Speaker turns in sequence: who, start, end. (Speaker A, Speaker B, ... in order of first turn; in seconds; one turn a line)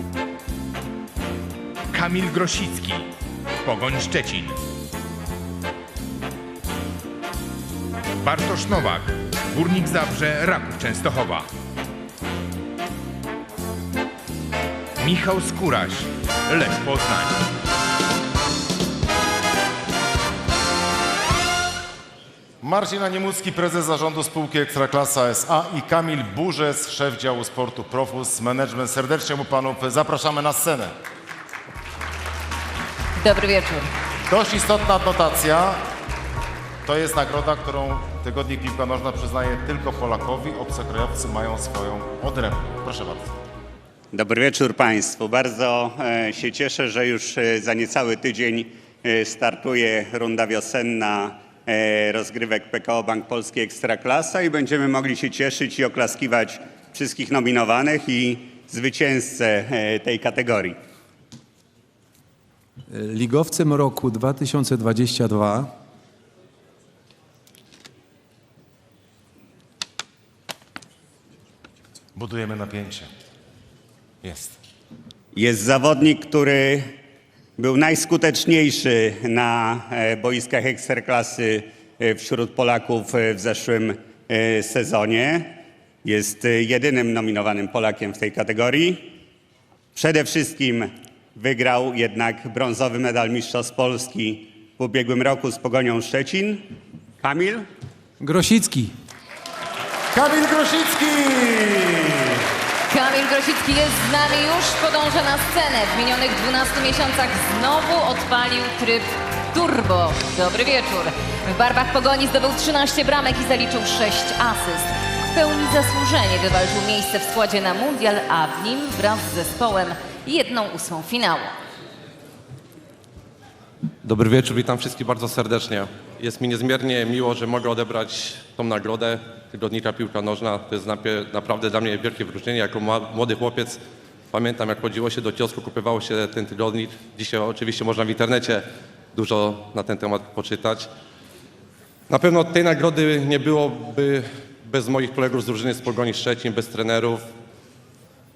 Speaker A: 1.9-3.0
Speaker A: 3.6-4.6
Speaker A: 8.2-11.5
Speaker A: 15.0-17.4
Speaker B: 22.6-30.9
Speaker C: 33.2-33.9
Speaker B: 34.3-35.8
Speaker B: 36.9-43.3
Speaker D: 44.1-60.8
Speaker E: 62.9-65.7
Speaker B: 72.1-73.1
Speaker B: 74.2-74.5
Speaker D: 75.3-76.9
Speaker D: 77.6-85.5
Speaker D: 86.0-89.1
Speaker D: 89.9-96.6
Speaker D: 97.2-97.7
Speaker E: 98.2-98.9
Speaker B: 100.1-102.3
Speaker C: 102.9-121.5
Speaker F: 124.0-133.8
Speaker F: 134.3-140.9
Speaker F: 142.1-147.2